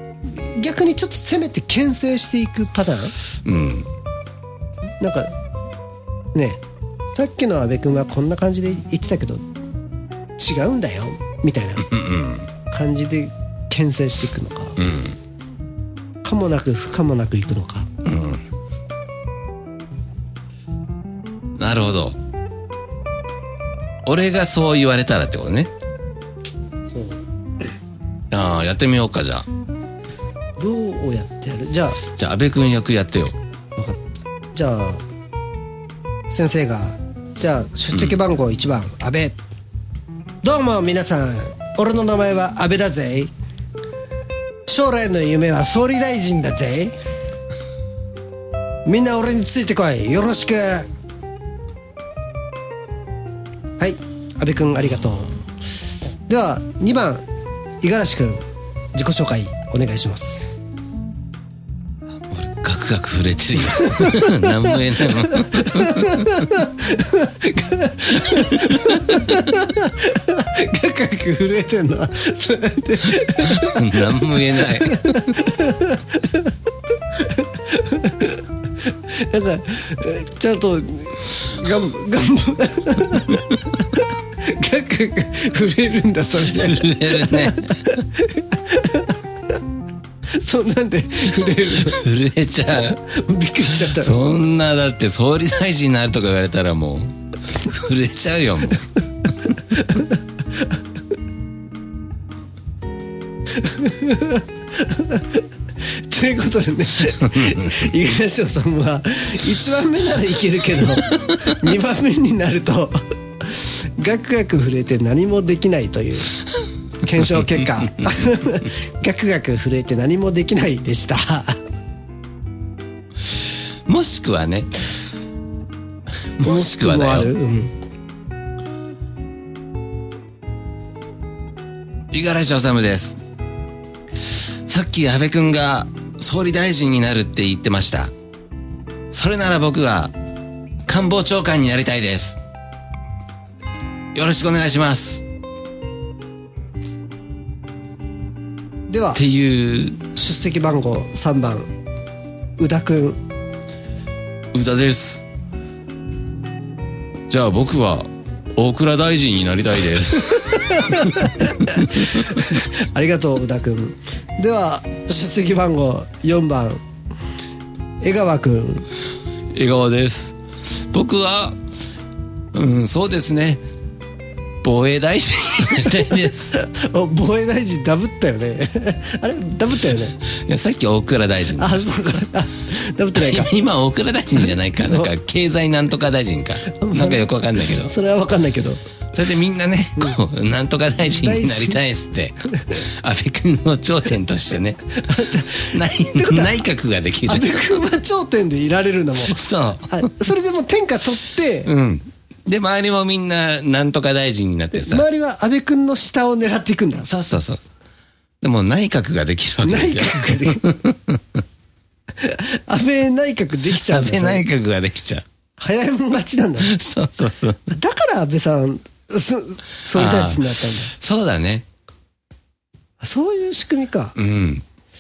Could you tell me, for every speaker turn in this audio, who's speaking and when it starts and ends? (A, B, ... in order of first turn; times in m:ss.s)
0:00.3-0:03.1 A
0:03.4-0:03.9 B
0:05.0-0:05.3 A
0:06.3-0:09.4 A
0:10.4-0:11.9 A
0:11.8-0:12.5 B
0:12.7-0:14.8 A
0:14.8-0:15.2 B
0:16.2-0:17.9 A
0:18.0-0:18.4 B
0:21.6-0:22.2 B
0:24.0-0:25.7 B
0:26.9-0:27.2 A
0:28.3-0:29.5 B
0:30.6-0:32.0 A
0:32.2-0:33.4 B
0:33.8-0:34.0 A
0:34.5-0:35.0 A
0:36.3-0:39.4 A
0:37.9-0:38.2 B
0:40.4-0:43.3 A
0:44.7-0:47.0 A
0:48.8-0:50.9 A
0:53.8-0:55.3 A
0:56.3-0:57.2 A
0:57.8-1:00.6 A
1:02.3-1:06.5 B
1:03.8-1:16.5 A
1:08.2-1:09.2 B
1:13.4-1:15.4 B
1:17.1-1:29.2 A
1:26.4-1:27.9 B
1:30.3-1:32.0 A
1:31.7-1:33.0 B
1:32.9-1:34.2 A
1:33.8-1:38.9 B
1:39.7-1:40.6 A
1:43.5-1:45.4 A
1:46.0-1:56.4 A
1:47.2-1:47.8 B
1:57.0-2:01.6 A
2:03.9-2:04.7 B
2:06.4-2:07.3 B
2:06.4-2:07.7 A
2:12.1-2:13.2 B
2:14.2-2:18.1 B
2:19.1-2:20.1 B
2:20.9-2:22.4 B
2:24.1-2:25.2 B
2:28.9-2:29.2 A
2:29.1-2:30.0 B
2:30.1-2:31.7 A
2:32.6-2:33.2 A
2:34.5-2:35.2 B
2:37.3-2:42.2 B
2:40.3-2:46.8 A
2:48.0-2:48.9 A
2:49.5-2:51.6 B
2:52.5-2:53.6 B
2:54.6-2:56.5 B
2:55.7-3:00.2 A
3:00.3-3:01.9 B
3:01.6-3:03.5 A
3:03.2-3:07.9 B
3:04.8-3:05.1 A
3:06.7-3:08.8 A
3:09.1-3:15.0 B
3:11.2-3:11.8 A
3:15.0-3:16.6 A
3:15.6-3:17.7 B
3:17.2-3:19.4 A
3:19.2-3:20.1 B
3:19.9-3:21.7 A
3:21.6-3:25.1 B
3:24.7-3:27.1 A
3:27.0-3:27.6 B
3:28.4-3:31.2 B
3:29.6-3:30.6 A
3:32.2-3:34.4 A
3:33.7-3:35.2 B
3:35.6-3:36.7 A
3:36.6-3:37.6 B
3:37.7-3:40.9 A
3:39.9-3:41.6 B
3:43.0-3:44.2 A
3:44.2-3:44.6 B